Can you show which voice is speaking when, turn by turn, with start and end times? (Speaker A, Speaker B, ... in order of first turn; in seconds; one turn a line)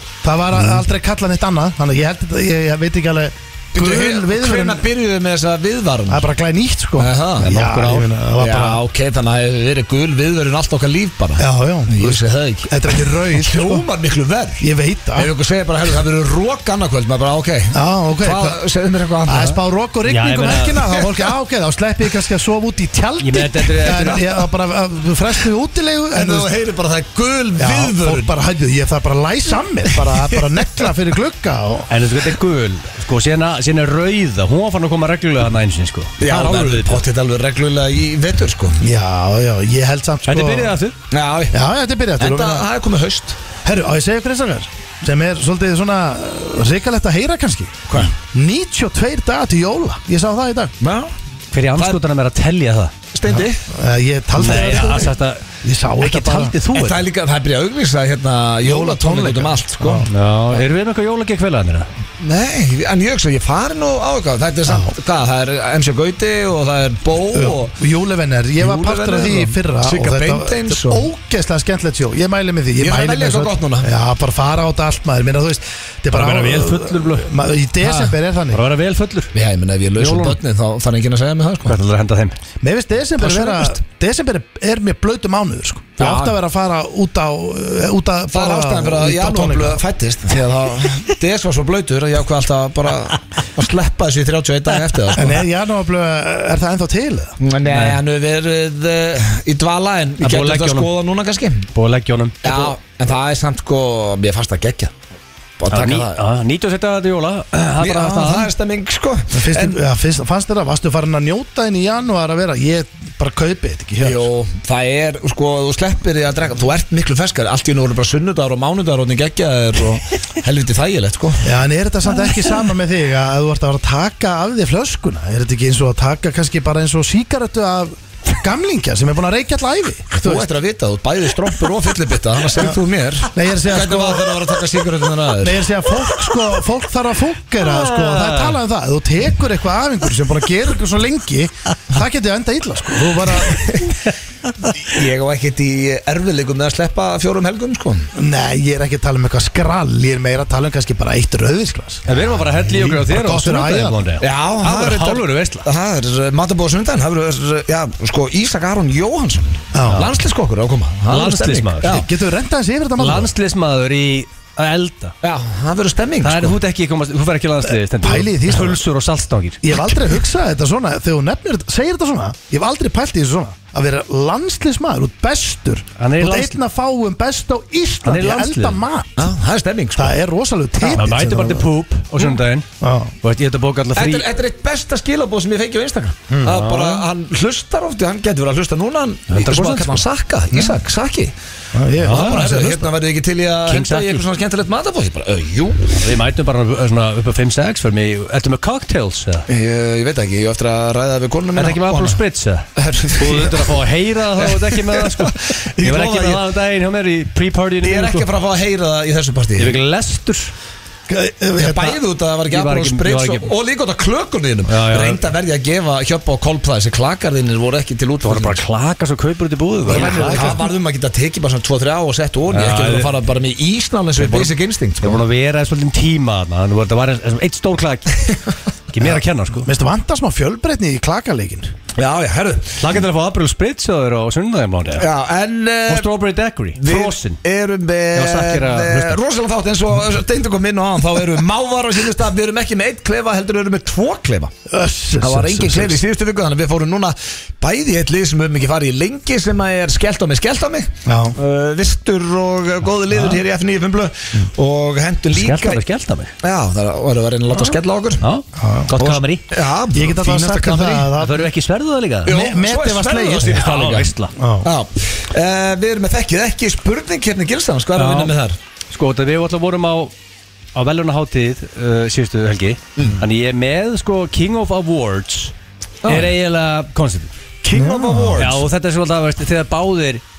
Speaker A: 0.2-4.9
Speaker B: 3.7-6.2
Speaker A: 6.1-8.8
Speaker B: 7.0-7.6
Speaker C: 7.4-8.1
Speaker B: 8.4-19.6
Speaker A: 11.4-13.9
Speaker A: 14.6-15.3
Speaker A: 17.7-18.6
Speaker A: 19.3-26.5
Speaker C: 20.1-20.8
Speaker C: 23.2-24.2
Speaker B: 24.1-24.3
Speaker B: 26.1-28.3
Speaker A: 27.6-31.9
Speaker B: 30.1-30.4
Speaker C: 31.9-37.0
Speaker B: 36.2-38.9
Speaker A: 38.8-40.8
Speaker C: 40.3-41.0
Speaker B: 41.1-41.6
Speaker A: 41.5-42.7
Speaker B: 42.2-43.4
Speaker A: 43.6-50.7
Speaker B: 50.8-51.1
Speaker C: 51.5-52.9
Speaker B: 53.1-53.6
Speaker A: 53.3-55.1
Speaker C: 54.4-55.5
Speaker B: 54.5-55.0
Speaker A: 55.6-56.6
Speaker C: 56.0-57.0
Speaker B: 56.7-60.1
Speaker A: 58.6-60.1
Speaker C: 60.1-61.9
Speaker B: 62.2-67.8
Speaker A: 64.7-65.0
Speaker A: 67.3-78.6
Speaker B: 68.6-71.1
Speaker B: 72.8-73.9
Speaker C: 76.1-77.3
Speaker C: 77.8-79.3
Speaker B: 79.3-81.8
Speaker C: 80.0-80.4
Speaker C: 81.7-82.4
Speaker A: 82.6-89.8
Speaker B: 86.0-86.4
Speaker B: 88.3-95.3
Speaker A: 95.1-97.4
Speaker B: 97.4-101.7
Speaker C: 97.7-98.0
Speaker C: 100.2-100.9
Speaker C: 101.7-102.8
Speaker B: 102.4-104.9
Speaker B: 105.6-106.2
Speaker C: 105.7-108.5
Speaker B: 107.8-109.8
Speaker A: 109.3-114.3
Speaker B: 114.0-121.5
Speaker A: 121.4-130.5
Speaker B: 130.1-135.6
Speaker A: 133.3-134.5
Speaker A: 135.4-143.7
Speaker C: 137.6-138.6
Speaker B: 143.4-144.1
Speaker B: 144.6-148.1
Speaker A: 148.2-152.1
Speaker C: 152.1-155.7
Speaker A: 152.6-154.1
Speaker B: 154.2-162.1
Speaker A: 159.7-160.1
Speaker C: 161.1-162.0
Speaker A: 161.8-163.3
Speaker C: 163.0-165.2
Speaker B: 165.2-166.6
Speaker C: 166.2-169.6
Speaker A: 167.7-168.8
Speaker A: 169.6-179.3
Speaker C: 176.0-176.6
Speaker C: 178.0-178.8
Speaker B: 179.2-180.2
Speaker A: 180.0-181.7
Speaker C: 181.0-182.7
Speaker A: 182.8-183.1
Speaker C: 183.2-184.3
Speaker B: 184.0-191.3
Speaker A: 186.3-186.6
Speaker C: 186.4-187.0
Speaker C: 189.3-190.1
Speaker A: 191.7-192.9
Speaker C: 192.0-192.4
Speaker B: 192.0-196.0
Speaker C: 193.7-194.2
Speaker C: 195.9-199.5
Speaker B: 199.5-202.2
Speaker C: 201.6-202.7
Speaker B: 202.8-203.8
Speaker C: 203.2-208.3
Speaker B: 204.4-206.4
Speaker B: 207.8-209.8
Speaker C: 209.6-210.5
Speaker A: 211.1-212.0
Speaker B: 211.6-218.6
Speaker C: 212.5-213.5
Speaker C: 214.7-215.2
Speaker C: 218.2-220.6
Speaker A: 219.9-220.6
Speaker B: 219.9-225.2
Speaker C: 222.5-223.2
Speaker C: 224.2-228.3
Speaker C: 228.9-229.7
Speaker A: 229.6-231.7
Speaker B: 232.0-232.9
Speaker C: 232.8-235.1
Speaker B: 235.0-236.1
Speaker C: 235.9-237.4
Speaker B: 236.8-244.5
Speaker C: 238.1-239.2
Speaker A: 244.7-246.0
Speaker B: 245.2-255.8
Speaker A: 251.1-251.4
Speaker C: 255.3-256.3
Speaker B: 256.4-258.2
Speaker C: 258.2-259.4
Speaker A: 258.6-258.9
Speaker B: 259.0-261.1
Speaker A: 259.9-261.4
Speaker C: 261.2-262.4
Speaker A: 262.3-263.6
Speaker B: 262.3-268.6
Speaker C: 263.4-264.3
Speaker A: 264.4-264.7
Speaker C: 268.0-268.3
Speaker C: 268.9-270.1
Speaker C: 270.8-275.5
Speaker B: 276.0-276.3
Speaker C: 276.1-277.3
Speaker B: 277.6-278.6
Speaker A: 277.7-278.5
Speaker C: 278.4-280.2